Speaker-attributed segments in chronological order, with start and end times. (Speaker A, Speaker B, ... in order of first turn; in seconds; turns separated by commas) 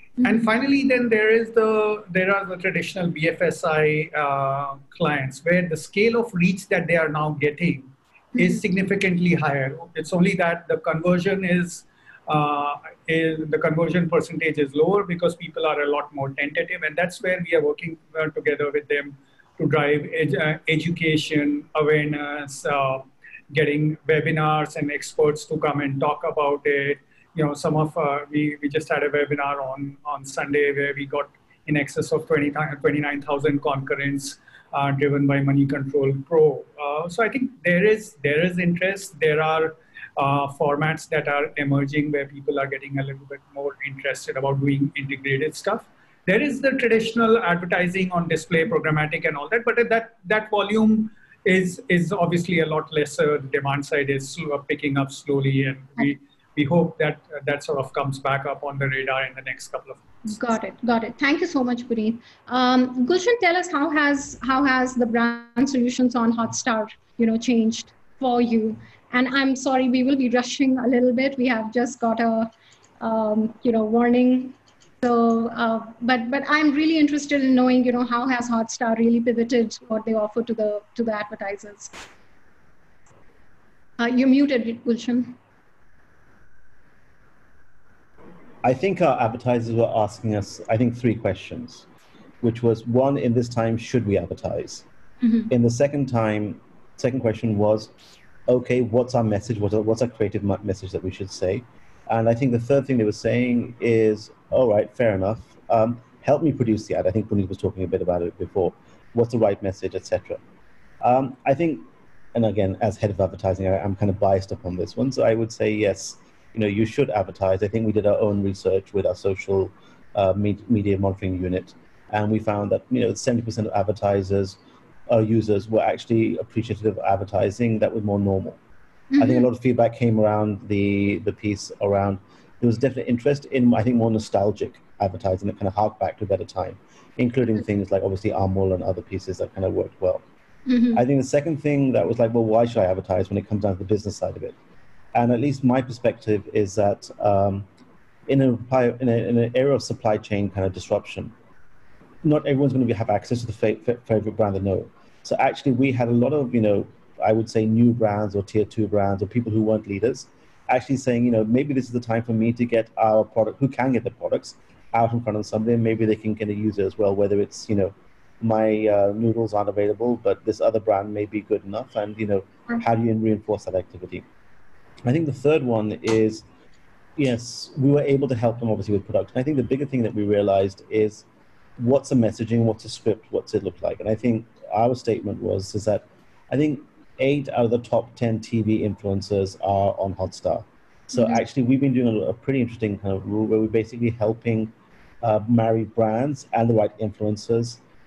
Speaker A: 0.2-60.0, Speaker B: 60.2-81.9, Speaker B: 84.0-85.3, Speaker C: 88.6-91.8, Speaker C: 92.4-94.8, Speaker B: 95.2-95.5, Speaker C: 95.5-97.9, Speaker C: 98.5-110.4, Speaker C: 111.0-124.6, Speaker C: 125.1-128.6, Speaker B: 129.1-129.4, Speaker C: 129.2-140.2, Speaker B: 140.7-141.0, Speaker C: 140.9-144.6, Speaker C: 145.1-147.7, Speaker C: 148.3-151.3, Speaker C: 152.2-174.2, Speaker C: 175.0-176.4, Speaker C: 177.2-181.2, Speaker C: 181.8-197.8, Speaker B: 191.1-191.4